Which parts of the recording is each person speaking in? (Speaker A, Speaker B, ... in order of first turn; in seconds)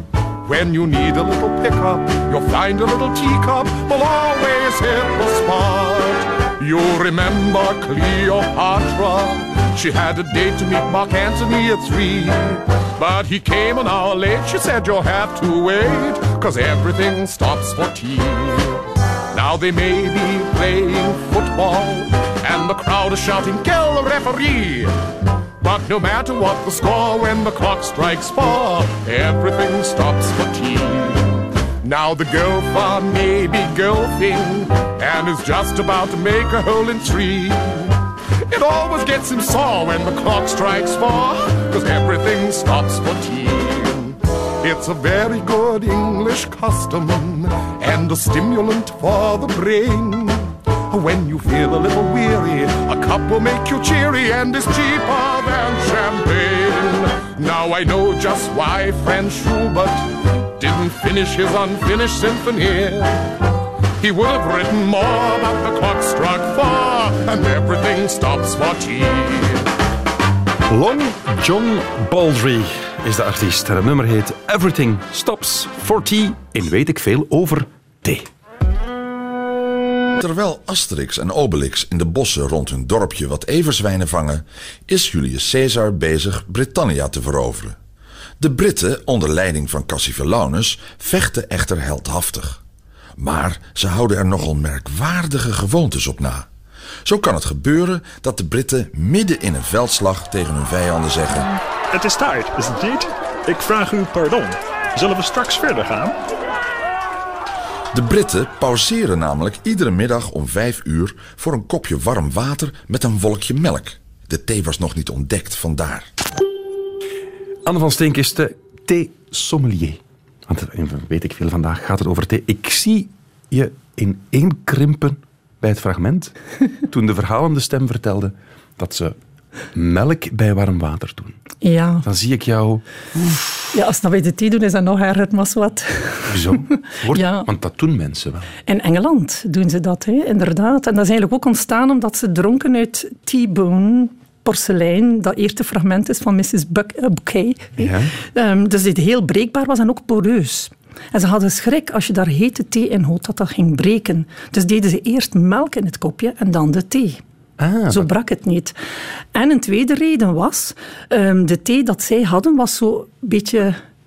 Speaker A: 0.5-24.9, 25.6-37.9, 38.5-63.2, 64.0-69.7
Speaker B: 70.7-78.3, 117.6-126.3, 126.9-129.2, 129.7-131.4, 132.0-133.5, 136.3-138.5, 147.8-148.1, 157.6-158.1
Speaker C: 80.2-87.8, 88.4-92.6, 93.2-96.5, 97.0-101.5, 107.9-116.1
Speaker D: 101.9-106.2
Speaker E: 131.6-132.1, 133.7-137.5, 138.7-157.2, 157.9-158.7, 159.3-163.8